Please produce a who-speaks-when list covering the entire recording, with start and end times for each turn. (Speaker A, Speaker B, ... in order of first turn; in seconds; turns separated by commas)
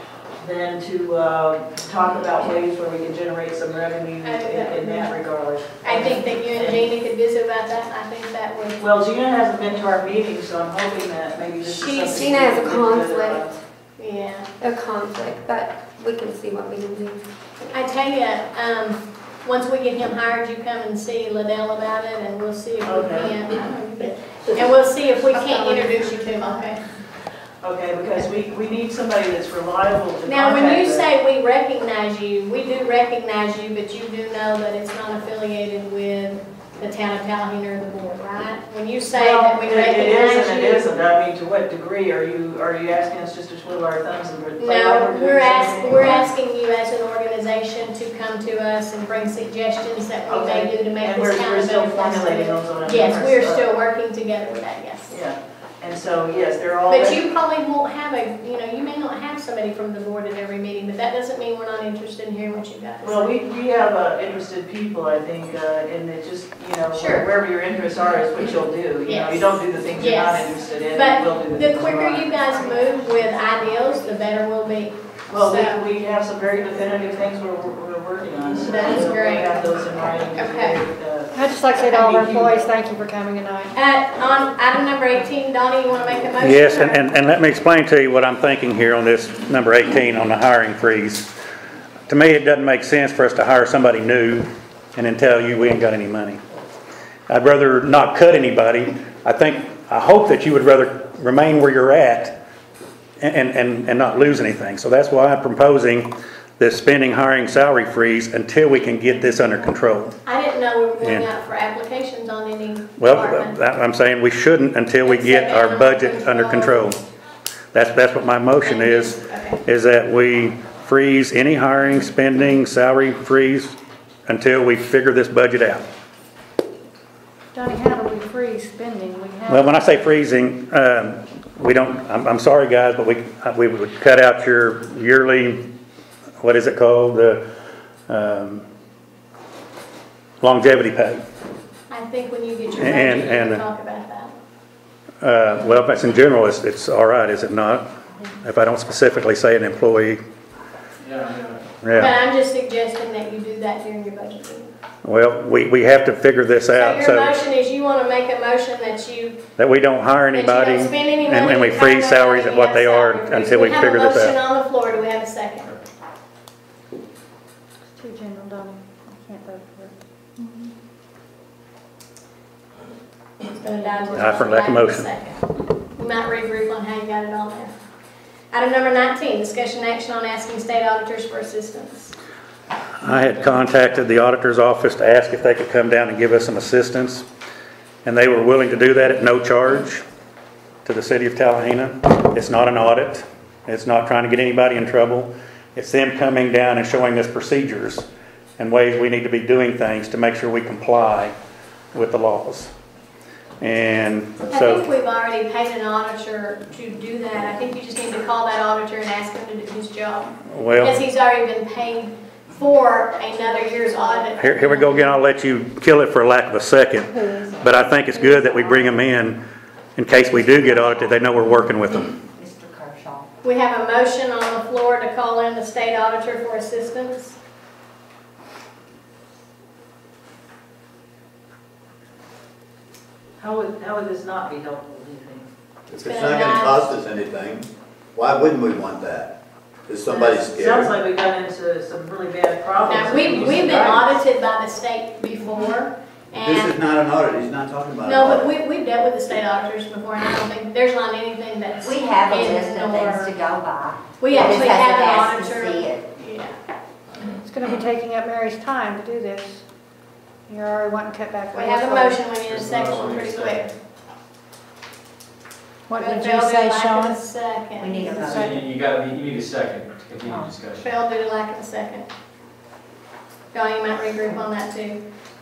Speaker A: 0.4-6.8, Speaker B: 4.2-5.1, Speaker B: 5.8-8.8, Speaker A: 8.8-13.5, Speaker B: 11.6-12.2, Speaker C: 12.2-13.4, Speaker B: 14.0-14.5, Speaker C: 14.6-17.2, Speaker B: 17.7-26.8, Speaker A: 22.8-23.3, Speaker C: 25.4-25.9, Speaker A: 27.6-31.0, Speaker B: 30.2-40.9, Speaker A: 39.1-46.2, Speaker B: 44.6-55.2, Speaker A: 50.3-53.6, Speaker A: 55.1-57.2, Speaker B: 56.9-63.3, Speaker A: 63.0-72.4, Speaker B: 66.9-67.2, Speaker B: 69.0-75.8, Speaker A: 75.3-82.7, Speaker B: 78.6-79.6, Speaker B: 80.3-80.8, Speaker D: 81.3-83.7, Speaker B: 83.7-87.0, Speaker E: 86.4-91.3, Speaker E: 92.1-96.4, Speaker E: 97.3-102.4, Speaker E: 103.2-110.1, Speaker B: 110.2-113.6, Speaker E: 111.0-111.3, Speaker E: 113.0-117.0, Speaker B: 115.0-116.9, Speaker E: 117.7-123.8, Speaker B: 118.6-119.6, Speaker E: 124.3-125.8, Speaker D: 127.5-129.8, Speaker E: 129.5-135.6, Speaker E: 136.4-137.4, Speaker E: 138.1-138.6, Speaker E: 140.4-141.2, Speaker B: 141.9-144.3, Speaker E: 142.7-143.6, Speaker E: 145.2-147.8, Speaker E: 148.4-150.2, Speaker F: 151.1-151.6, Speaker E: 151.8-152.2, Speaker B: 151.9-154.7, Speaker E: 155.0-157.3, Speaker B: 156.7-159.4, Speaker E: 159.6-164.4, Speaker B: 160.3-165.7, Speaker D: 167.9-170.7, Speaker B: 173.5-175.4, Speaker E: 174.1-175.1, Speaker B: 175.9-177.7, Speaker B: 178.5-182.1, Speaker E: 183.0-187.2, Speaker E: 188.0-190.0, Speaker E: 190.8-198.1, Speaker E: 198.6-201.3, Speaker E: 201.9-202.7, Speaker E: 203.6-204.8, Speaker B: 204.5-215.1, Speaker E: 210.5-211.0, Speaker E: 214.3-219.4, Speaker E: 219.9-222.1, Speaker G: 222.4-223.2, Speaker B: 223.4-227.3, Speaker A: 233.4-235.5, Speaker H: 235.9-239.3, Speaker B: 236.0-236.9, Speaker H: 239.9-240.9, Speaker A: 240.1-244.1, Speaker B: 242.8-246.7, Speaker F: 243.2-243.6, Speaker H: 246.3-248.5, Speaker B: 248.0-253.4, Speaker G: 251.8-256.0, Speaker B: 254.2-256.6, Speaker D: 257.4-259.6, Speaker D: 260.5-262.4, Speaker B: 261.5-263.7, Speaker F: 262.4-263.7, Speaker D: 265.9-267.2, Speaker B: 265.9-268.4, Speaker G: 267.8-268.3, Speaker D: 268.1-268.7, Speaker F: 268.2-271.0, Speaker B: 270.8-272.1, Speaker B: 273.5-275.0